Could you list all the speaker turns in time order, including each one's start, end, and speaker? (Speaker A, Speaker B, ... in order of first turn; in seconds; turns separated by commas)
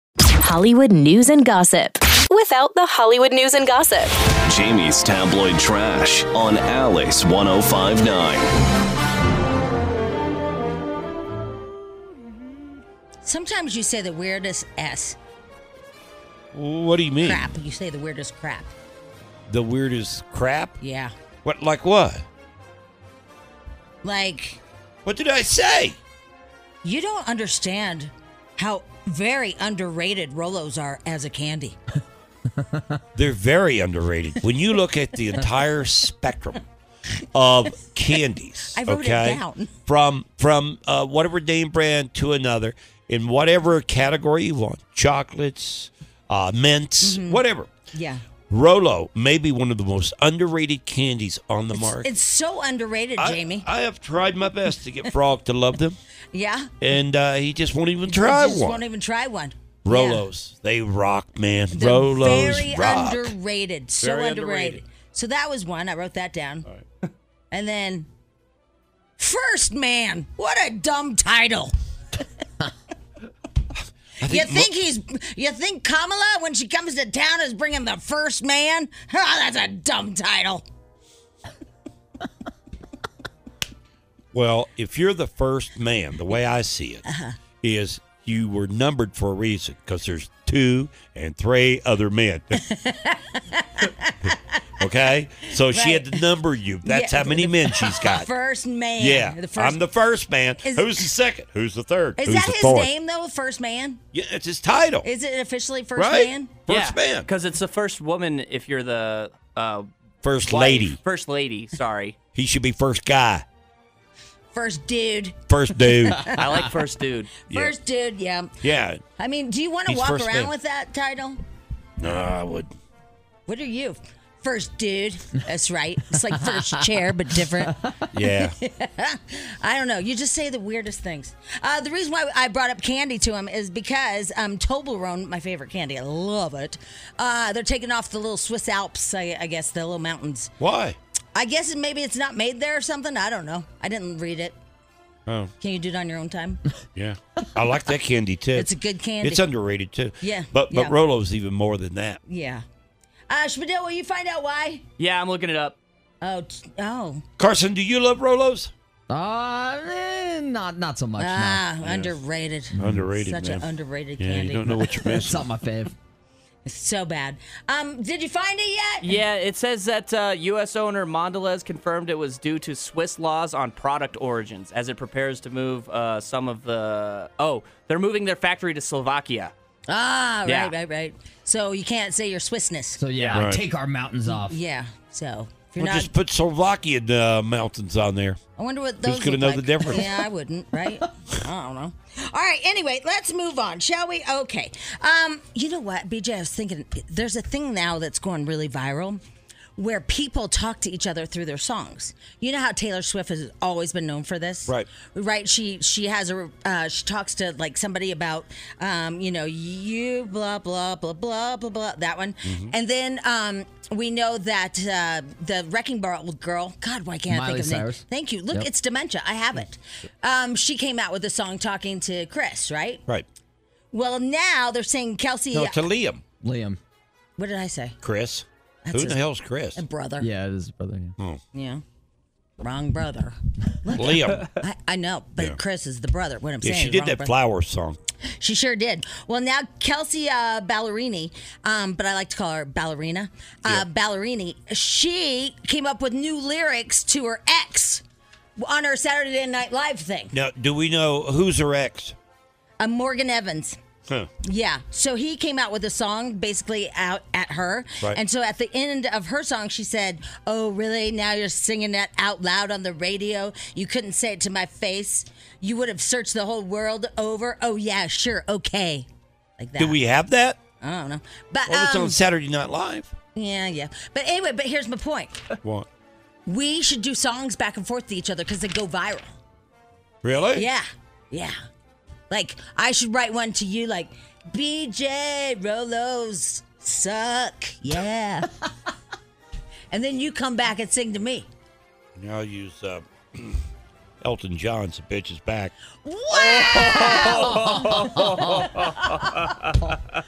Speaker A: 0.4-4.1, Speaker B: 4.5-8.5, Speaker C: 13.2-15.2, Speaker D: 16.5-17.5, Speaker C: 17.2-18.7, Speaker D: 19.5-20.8, Speaker C: 20.8-21.1, Speaker D: 21.4-22.2, Speaker C: 24.0-24.6, Speaker D: 25.1-26.0, Speaker C: 26.8-31.8, Speaker D: 33.1-36.6, Speaker D: 37.3-47.7, Speaker C: 38.7-39.8, Speaker C: 47.0-48.2, Speaker D: 48.5-52.1, Speaker C: 51.8-53.7, Speaker D: 53.2-56.0, Speaker C: 56.3-56.7, Speaker D: 56.8-58.8, Speaker C: 58.1-60.3, Speaker D: 59.9-63.3, Speaker C: 61.7-66.7, Speaker D: 64.0-64.8, Speaker C: 67.5-68.1, Speaker C: 69.2-71.7, Speaker D: 74.2-74.7, Speaker C: 74.2-80.6, Speaker D: 84.3-87.0, Speaker C: 87.1-87.3, Speaker D: 87.6-92.6, Speaker C: 92.7-94.4, Speaker D: 94.8-98.3, Speaker C: 95.7-96.2, Speaker C: 96.8-99.8, Speaker D: 99.0-102.9, Speaker C: 100.6-101.1, Speaker C: 102.2-104.0, Speaker D: 104.1-105.1, Speaker C: 105.0-106.5, Speaker D: 106.0-107.3, Speaker E: 106.7-109.9, Speaker D: 110.2-111.0, Speaker E: 110.5-112.2, Speaker D: 112.3-113.5, Speaker C: 114.5-116.4, Speaker D: 115.5-116.3, Speaker E: 116.3-117.3, Speaker D: 117.5-117.8, Speaker C: 117.5-118.5, Speaker D: 118.6-119.0, Speaker C: 119.2-121.4, Speaker D: 119.9-120.5, Speaker D: 122.0-122.7, Speaker C: 123.5-140.5, Speaker D: 128.1-128.5, Speaker D: 140.6-141.0, Speaker C: 141.3-144.6, Speaker D: 145.3-145.5, Speaker C: 145.6-146.7, Speaker D: 146.9-152.2, Speaker C: 148.5-149.5, Speaker C: 150.2-151.0, Speaker C: 152.3-152.6, Speaker C: 153.3-154.8, Speaker E: 155.0-155.8, Speaker C: 156.2-157.2, Speaker D: 157.4-158.7, Speaker F: 159.1-161.7, Speaker C: 161.2-165.2, Speaker D: 161.8-162.2, Speaker F: 162.8-163.0, Speaker D: 162.8-163.7, Speaker D: 164.2-165.5, Speaker F: 165.2-165.9, Speaker C: 166.7-169.2, Speaker E: 169.0-179.5, Speaker C: 179.9-183.0, Speaker E: 180.5-180.7, Speaker F: 183.0-184.6, Speaker E: 183.2-183.5, Speaker D: 183.3-183.6, Speaker C: 184.3-186.1, Speaker D: 185.8-188.4, Speaker C: 188.6-199.2, Speaker D: 189.0-190.3, Speaker C: 199.8-223.0, Speaker D: 212.5-212.7, Speaker F: 217.3-218.7, Speaker C: 223.9-225.8, Speaker D: 225.5-226.2, Speaker F: 226.4-226.8, Speaker C: 227.4-228.0, Speaker D: 228.0-229.8, Speaker C: 228.9-229.2, Speaker C: 229.7-230.3, Speaker F: 230.2-231.1, Speaker C: 231.5-231.8, Speaker C: 232.6-237.4, Speaker D: 233.9-234.5, Speaker D: 236.6-238.0, Speaker C: 238.4-248.0, Speaker C: 248.6-250.3, Speaker D: 250.3-252.2, Speaker C: 252.8-253.8, Speaker C: 254.4-270.0, Speaker D: 269.8-270.6, Speaker C: 270.8-272.2, Speaker D: 271.7-273.1, Speaker C: 273.4-275.3, Speaker D: 275.6-275.9, Speaker C: 276.5-279.4, Speaker D: 280.2-280.7, Speaker C: 280.5-281.5, Speaker C: 282.3-288.6, Speaker C: 289.9-291.5, Speaker D: 292.2-293.6, Speaker D: 294.2-295.7, Speaker C: 296.0-299.6, Speaker E: 296.4-299.1, Speaker F: 297.1-298.2